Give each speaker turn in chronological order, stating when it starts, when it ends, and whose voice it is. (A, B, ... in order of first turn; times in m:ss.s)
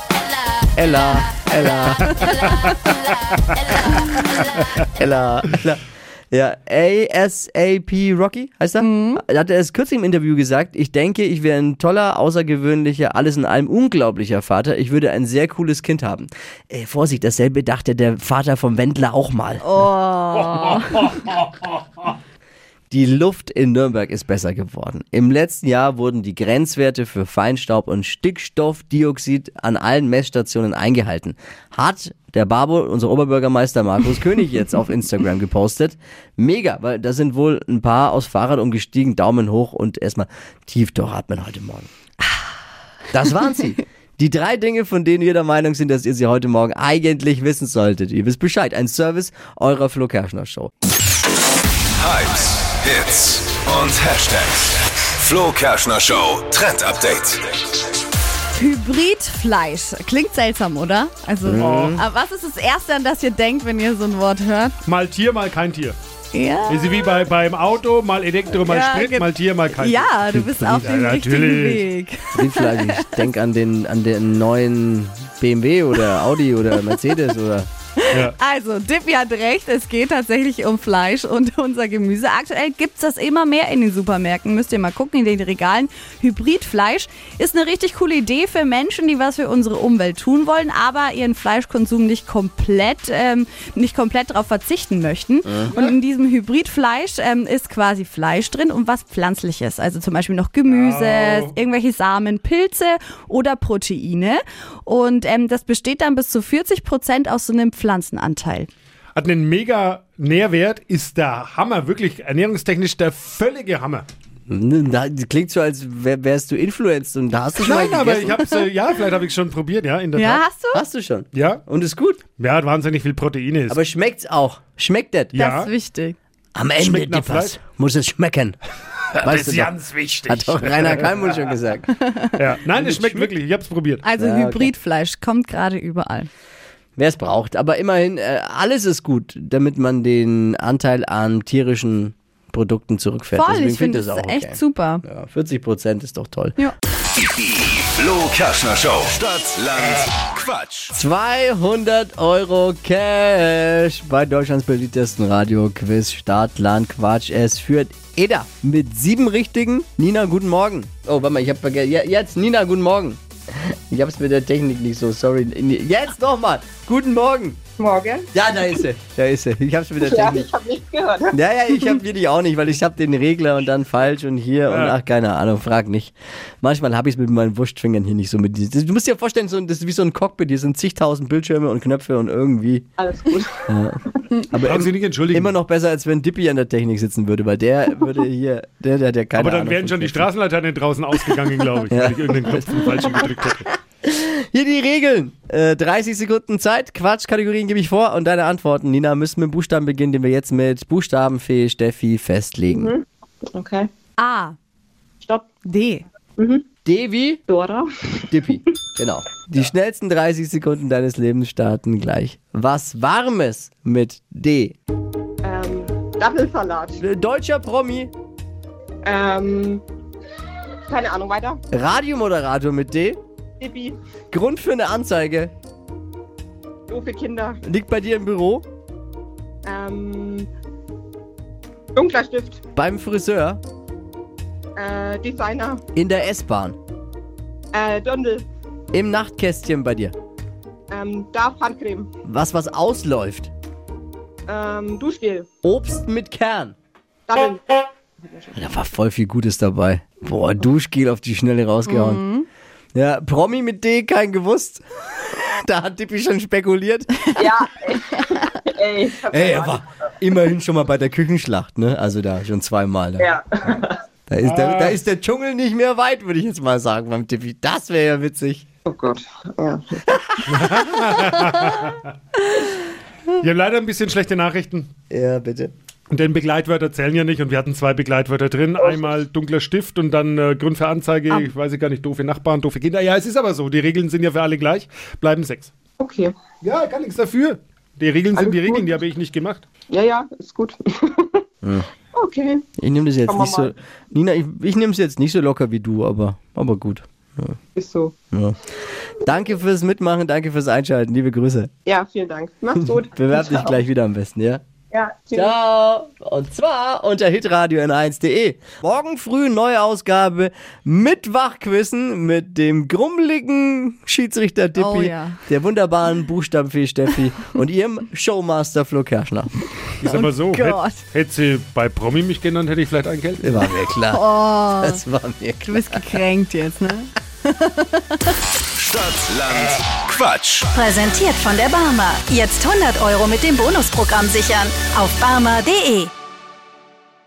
0:00.8-0:02.5 A
0:04.8-0:19.6 A
0:08.8-0:09.2 B
0:19.6-0:21.2 B
0:20.4-0:21.7 C
0:22.9-0:41.9 A
0:43.1-0:50.7 A
0:52.0-0:57.5 D
0:58.6-1:04.8 B
1:01.5-1:02.0 A
1:01.6-1:02.0 C
1:04.8-1:06.0 C
1:06.3-1:07.0 B
1:06.7-1:11.9 C
1:08.5-1:13.1 B
1:12.3-1:17.7 A
1:18.0-1:48.7 B
1:40.6-1:41.5 C
1:49.2-1:54.1 C
1:54.5-1:58.4 A
1:57.6-2:00.4 C
2:00.2-2:00.8 B
2:00.7-2:02.2 A
2:01.3-2:01.6 C
2:02.4-2:03.8 C
2:03.7-2:05.3 A
2:05.4-2:05.7 C
2:05.4-2:06.2 B
2:06.6-2:08.6 A
2:06.8-2:07.6 C
2:09.2-2:11.1 C
2:09.2-2:09.8 A
2:10.3-2:12.0 A
2:12.4-2:14.0 C
2:12.8-2:13.3 A
2:14.0-2:16.3 B
2:14.2-2:14.7 A
2:17.0-2:26.6 A
2:23.3-2:25.0 B
2:27.2-2:30.9 D
2:30.9-2:47.6 A
2:47.8-2:48.3 E
2:48.3-2:50.5 A
2:50.0-2:51.3 E
2:51.3-3:02.9 A
3:03.0-3:03.6 E
3:03.7-3:10.3 A
3:04.6-3:05.5 C
3:09.4-3:13.7 C
3:11.9-3:13.2 A
3:14.0-3:22.9 A
3:22.7-3:23.0 E
3:23.5-3:23.9 E
3:24.2-3:24.6 B
3:25.6-3:26.0 B
3:26.4-3:26.6 E
3:26.8-3:27.4 A
3:27.5-3:27.9 E
3:28.3-3:34.7 A
3:35.4-3:37.0 E
3:37.0-3:38.1 A
3:39.0-3:39.8 E
3:40.9-3:41.6 E
3:41.7-3:43.2 A
3:43.6-3:44.0 E
3:44.3-3:45.5 A
3:46.9-3:47.6 E
3:47.6-3:48.6 A
3:49.7-3:50.5 E
3:52.0-3:52.6 E
3:52.8-3:53.6 A
3:54.8-3:55.8 E
3:56.0-3:56.8 A
3:57.7-3:58.4 E
3:58.9-4:00.1 A
4:00.9-4:02.1 E
4:02.2-4:03.5 A
4:04.5-4:05.5 E
4:05.6-4:06.7 A
4:07.3-4:07.6 E
4:08.2-4:08.6 E
4:08.6-4:12.3 A
4:11.9-4:12.5 B
4:13.0-4:17.2 A
4:17.4-4:19.7 E
4:19.3-4:23.4 A
4:23.2-4:23.9 E
4:24.3-4:28.6 A
4:24.4-4:25.0 C
4:28.9-4:29.8 E
4:30.5-4:32.1 C
4:33.4-4:34.9 C
4:35.1-4:35.7 A
4:36.1-4:45.7 C
4:46.0-4:46.3 E
4:46.6-4:49.6 C
4:48.4-4:48.9 E
4:49.9-4:51.4 E
4:52.2-4:52.6 E
4:52.8-4:57.6 A
4:53.3-4:53.7 E
4:57.8-4:58.1 E
4:58.3-4:58.6 A
4:59.2-5:01.7 A
5:01.9-5:03.8 E
5:02.8-5:04.6 A
5:04.9-5:05.5 E
5:05.3-5:19.5 A
5:14.8-5:15.4 B
5:20.0-5:23.6 C
5:20.1-5:21.0 B
5:23.4-5:26.2 A
5:24.1-5:25.0 B
5:25.7-5:28.4 B
5:28.8-5:30.7 D
5:30.7-5:36.1 F